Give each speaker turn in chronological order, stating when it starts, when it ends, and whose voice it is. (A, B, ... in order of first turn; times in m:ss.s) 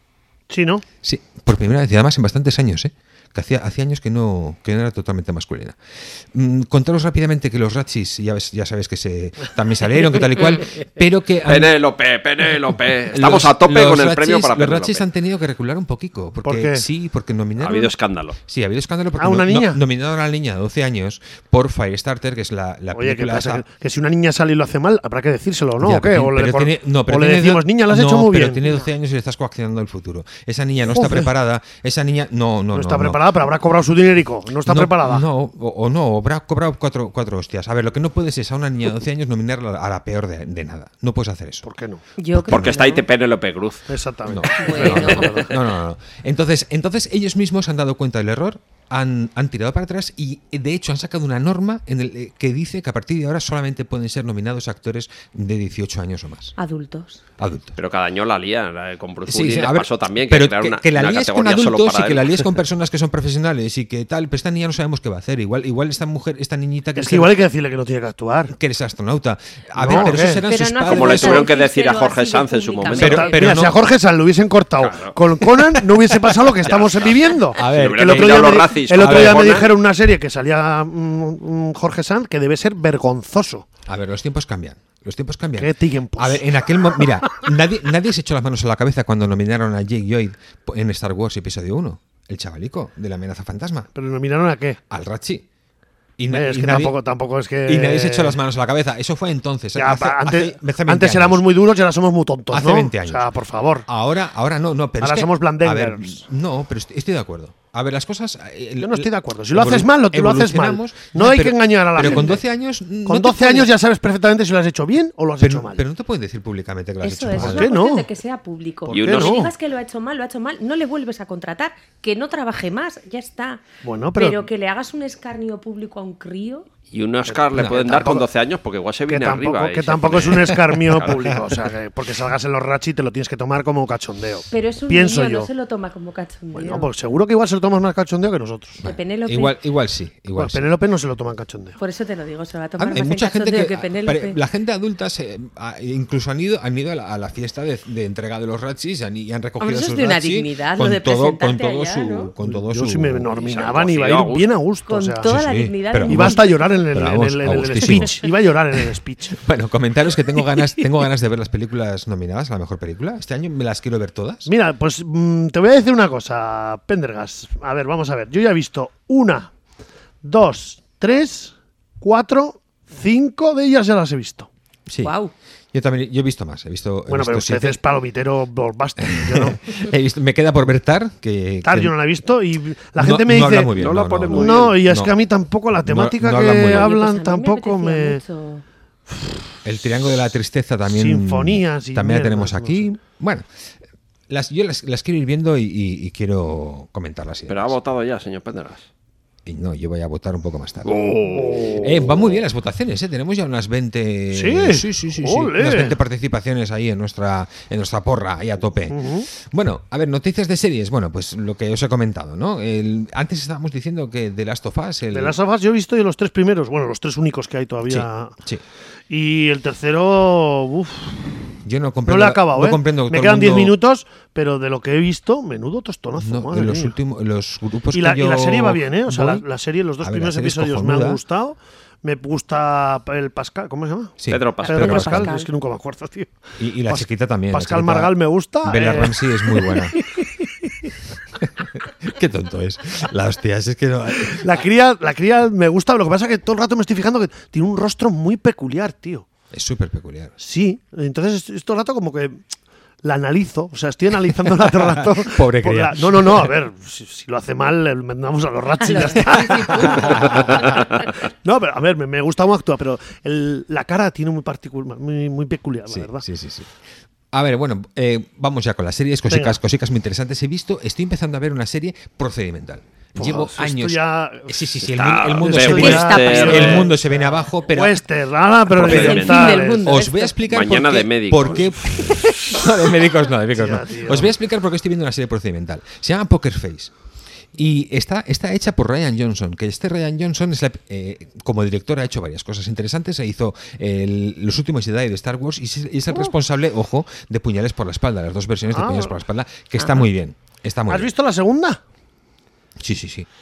0:00.5-0:00.8 A
0:01.0-0:11.8 B
0:11.4-0:15.0 C
0:13.1-0:23.6 B
0:16.4-0:16.9 A
0:17.6-0:18.4 C
0:19.2-0:19.8 A
0:22.9-0:28.7 A
0:25.8-0:33.2 B
0:30.9-0:31.3 A
0:32.7-0:35.2 A
0:34.6-0:41.6 B
0:41.6-0:42.0 A
0:42.2-0:43.0 D
0:42.3-0:42.8 B
0:42.5-0:43.9 C
0:43.9-0:45.5 A
0:44.3-0:56.6 B
0:44.6-0:45.3 D
0:56.6-0:57.2 D
0:57.4-0:57.8 B
0:57.8-1:02.5 C
0:59.3-1:07.4 B
1:07.0-1:08.5 A
1:08.5-1:11.5 B
1:09.8-1:10.4 A
1:10.4-1:13.5 D
1:10.8-1:13.4 C
1:13.0-1:13.8 B
1:13.0-1:23.7 A
1:14.8-1:15.2 C
1:16.6-1:19.7 C
1:17.6-1:19.7 B
1:23.9-1:33.9 B
1:25.6-1:27.1 A
1:33.9-1:34.8 A
1:34.9-1:35.4 B
1:36.2-1:37.0 B
1:36.3-1:38.4 A
1:37.7-1:41.4 B
1:39.8-1:43.9 A
1:42.5-1:43.3 B
1:43.9-1:53.7 B
1:45.0-1:46.3 A
1:48.8-1:52.4 A
1:53.0-1:55.8 A
1:55.4-1:57.7 B
1:57.0-2:03.6 D
1:57.4-1:58.1 A
1:58.9-1:59.5 A
1:58.9-1:59.5 C
2:03.8-2:04.5 A
2:04.2-2:06.7 D
2:06.9-2:11.4 C
2:07.3-2:08.3 A
2:07.5-2:08.0 B
2:09.1-2:15.5 A
2:14.5-2:16.9 D
2:16.5-2:18.8 A
2:18.8-2:20.7 B
2:18.8-2:19.6 D
2:20.4-2:21.8 A
2:21.8-2:24.4 D
2:22.8-2:33.3 B
2:29.6-2:32.3 D
2:32.4-2:35.3 A
2:33.3-2:34.5 C
2:34.9-2:36.6 D
2:35.2-2:38.2 B
2:36.1-2:39.4 A
2:37.8-2:38.1 D
2:39.3-2:44.5 B
2:44.5-2:49.5 A
2:50.2-2:54.5 A
2:54.9-2:55.2 B
2:55.0-2:55.3 D
2:55.7-2:57.8 B
2:57.1-2:59.6 A
2:59.0-3:02.0 B
3:01.6-3:03.7 A
3:03.0-3:05.1 B
3:03.7-3:04.8 C
3:04.3-3:08.2 A
3:05.8-3:06.9 B
3:06.6-3:08.6 D
3:09.1-3:09.4 A
3:09.6-3:13.5 B
3:10.9-3:12.9 A
3:14.3-3:17.8 B
3:17.5-3:18.9 C
3:19.5-3:35.4 B
3:20.8-3:22.0 C
3:21.4-3:21.9 A
3:24.3-3:26.0 A
3:28.9-3:29.3 A
3:35.1-3:38.4 A
3:37.8-3:38.6 B
3:39.1-3:41.4 A
3:41.6-3:43.8 B
3:42.0-3:47.0 A
3:46.2-3:49.5 B
3:47.9-4:00.9 A
3:50.0-3:51.2 B
3:54.2-3:55.4 B
3:54.3-3:55.0 C
3:54.6-3:55.5 D
3:56.6-4:00.0 B
4:01.4-4:04.6 B
4:04.3-4:09.3 A
4:09.5-4:10.4 B
4:10.4-4:12.4 A
4:13.0-4:26.2 A
4:14.6-4:16.5 B
4:18.8-4:20.7 D
4:19.3-4:20.7 B
4:25.9-4:26.7 B
4:27.3-4:38.0 B
4:29.3-4:29.6 A
4:33.2-4:34.8 A
4:34.8-4:36.9 C
4:35.4-4:39.9 A
4:35.7-4:36.9 D
4:38.7-4:46.9 B
4:38.7-4:39.6 C
4:38.9-4:40.4 D
4:40.5-4:41.7 C
4:43.5-4:44.4 A
4:47.6-5:01.1 B
4:58.7-4:59.2 A
4:59.8-5:00.0 D
5:00.9-5:01.8 A
5:02.8-5:03.3 B